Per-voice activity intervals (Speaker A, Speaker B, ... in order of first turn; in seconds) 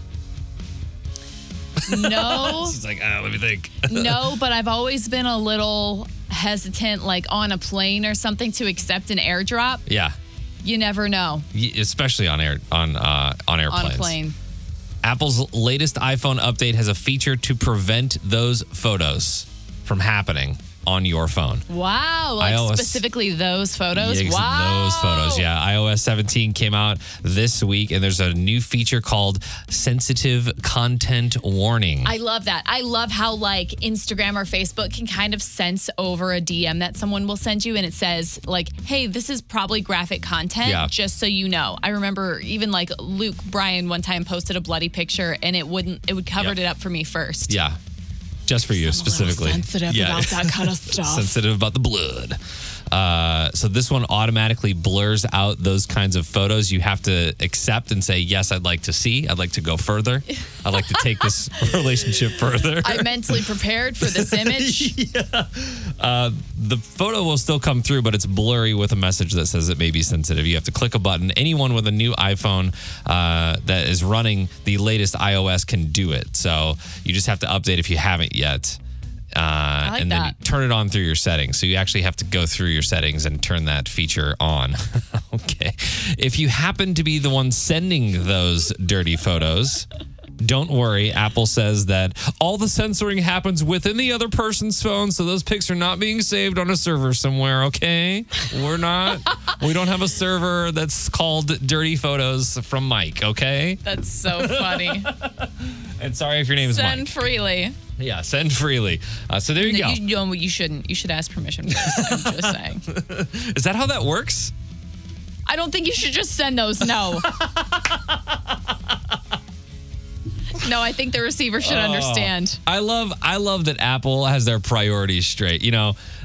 Speaker A: 1.8-4.3, 9.9-10.2, 11.5-14.2, 15.0-21.6, 22.4-23.0, 23.9-32.1, 40.6-40.9, 47.5-47.8, 48.5-52.4, 52.9-63.5, 64.0-78.8, 79.3-89.9, 90.4-107.2, 108.0-110.0, 111.7-114.5, 117.0-119.2, 121.6-126.0
Speaker B: 1.9-2.8, 3.9-9.8, 10.6-11.5, 13.7-14.4, 21.7-25.5, 32.0-47.6, 48.7-51.3, 62.8-64.9, 79.8-80.3, 103.8-105.1, 106.6-107.8, 109.6-112.8, 115.5-117.3, 120.5-122.6